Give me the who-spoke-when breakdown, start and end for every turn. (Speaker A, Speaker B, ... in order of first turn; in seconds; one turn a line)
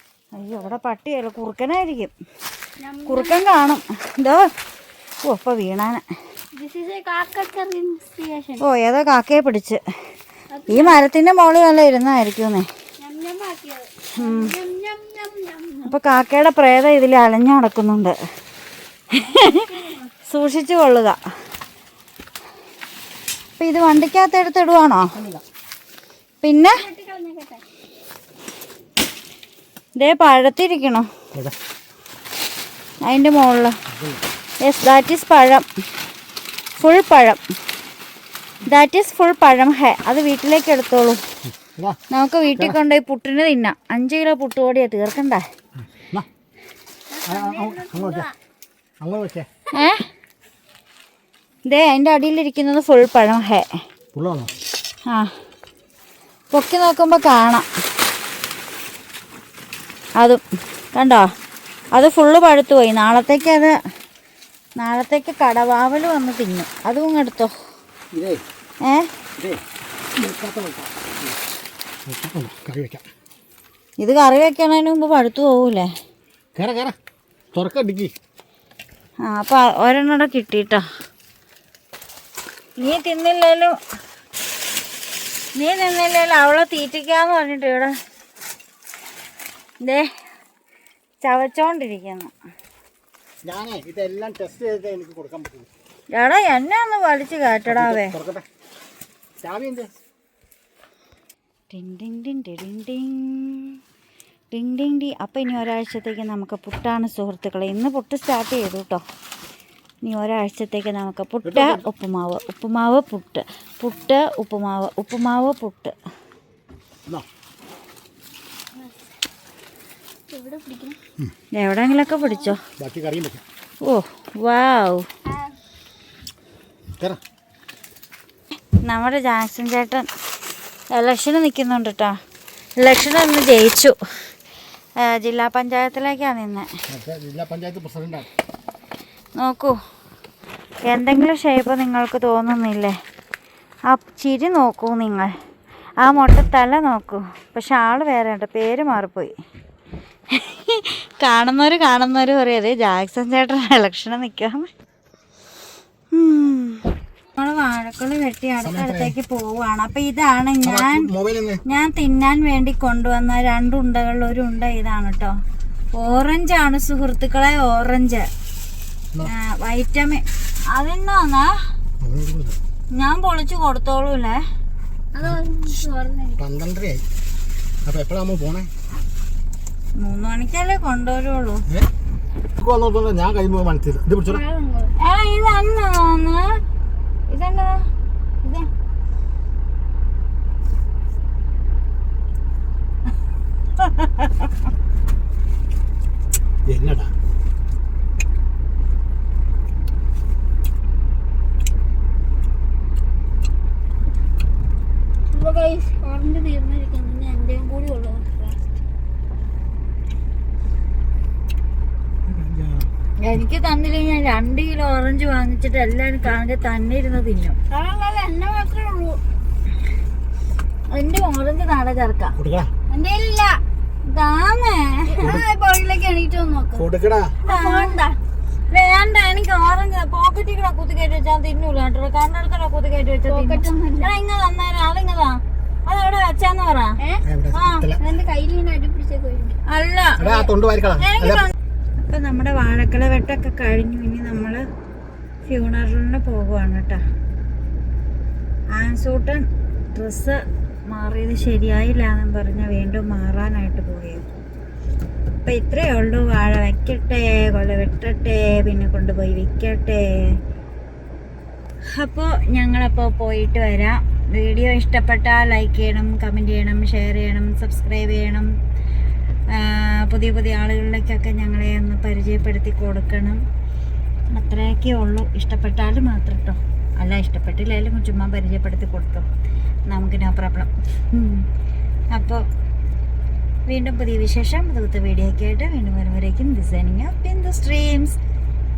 Speaker A: 0.3-2.1
Speaker B: 2.8-3.5
Speaker A: 3.1-4.5
Speaker A: 5.2-6.0
Speaker B: 6.5-8.6
Speaker A: 8.6-9.8
Speaker B: 10.5-11.1
Speaker A: 10.7-12.7
Speaker B: 13.0-15.9
Speaker A: 14.2-14.6
Speaker A: 15.8-18.1
Speaker A: 19.1-19.6
Speaker B: 19.2-20.1
Speaker A: 20.3-21.2
Speaker A: 23.6-25.2
Speaker C: 25.1-25.4
Speaker A: 26.4-26.9
Speaker B: 26.7-27.7
Speaker A: 30.0-31.1
Speaker A: 33.0-33.8
Speaker C: 33.9-34.2
Speaker A: 34.6-35.7
Speaker A: 36.8-37.4
Speaker A: 38.6-41.2
Speaker C: 41.6-42.0
Speaker A: 42.1-45.5
Speaker C: 46.0-46.3
Speaker B: 47.1-48.4
Speaker C: 47.3-48.3
Speaker C: 49.0-49.5
Speaker A: 49.7-50.1
Speaker A: 51.7-53.7
Speaker C: 54.1-54.5
Speaker A: 55.1-55.3
Speaker A: 56.5-57.7
Speaker A: 60.9-61.3
Speaker A: 61.9-63.8
Speaker A: 64.8-67.5
Speaker C: 68.1-68.4
Speaker A: 68.8-69.1
Speaker C: 70.2-71.4
Speaker C: 72.1-73.0
Speaker A: 74.0-75.9
Speaker C: 76.6-77.0
Speaker C: 77.5-78.1
Speaker A: 79.2-80.8
Speaker A: 82.8-83.8
Speaker A: 85.6-87.9
Speaker A: 89.8-90.1
Speaker A: 91.2-92.3
Speaker C: 93.4-95.7
Speaker A: 96.2-98.2
Speaker C: 97.7-98.5
Speaker C: 99.4-99.9
Speaker A: 101.7-103.8
Speaker A: 104.5-109.0
Speaker A: 110.0-115.9
Speaker C: 111.5-111.8
Speaker B: 120.3-121.0
Speaker A: 121.6-122.6
Speaker B: 121.9-122.6
Speaker C: 122.8-123.4
Speaker A: 123.8-125.1
Speaker B: 125.2-125.6
Speaker A: 128.8-130.1
Speaker A: 130.9-132.2
Speaker A: 132.8-134.3
Speaker A: 135.0-136.7
Speaker C: 136.9-138.3
Speaker A: 139.4-139.8
Speaker A: 140.9-143.0
Speaker A: 143.9-145.3
Speaker A: 146.0-149.3
Speaker A: 150.3-154.7
Speaker A: 156.1-161.1
Speaker C: 158.7-159.1
Speaker C: 160.7-161.6
Speaker A: 161.7-165.4
Speaker A: 166.0-168.3
Speaker A: 169.2-171.6
Speaker C: 172.0-172.6
Speaker A: 172.9-174.4
Speaker B: 175.1-176.4
Speaker C: 176.4-177.1
Speaker C: 177.8-178.7
Speaker A: 180.0-181.7
Speaker C: 182.6-184.4
Speaker B: 184.2-184.9
Speaker A: 185.0-186.6
Speaker A: 187.3-187.9
Speaker A: 188.4-188.7
Speaker A: 193.8-194.3
Speaker C: 196.7-197.1
Speaker B: 205.3-208.6
Speaker C: 212.3-212.9
Speaker A: 213.2-217.6
Speaker B: 217.7-219.2
Speaker A: 220.9-222.4
Speaker C: 222.4-222.7
Speaker B: 222.9-223.6
Speaker A: 224.1-225.2
Speaker B: 225.1-226.9
Speaker C: 226.8-227.4
Speaker B: 227.4-228.2
Speaker A: 227.5-228.0
Speaker A: 228.7-236.9
Speaker B: 233.3-234.1
Speaker B: 237.0-237.3
Speaker C: 237.3-237.9
Speaker A: 237.5-237.9
Speaker B: 238.0-239.6
Speaker A: 239.7-244.6
Speaker C: 240.2-241.4
Speaker A: 245.5-247.0
Speaker A: 248.8-254.3
Speaker A: 255.4-260.1
Speaker A: 261.9-268.5
Speaker A: 269.5-273.4
Speaker A: 274.3-279.3
Speaker A: 279.9-281.5
Speaker A: 282.1-282.4
Speaker A: 283.7-288.2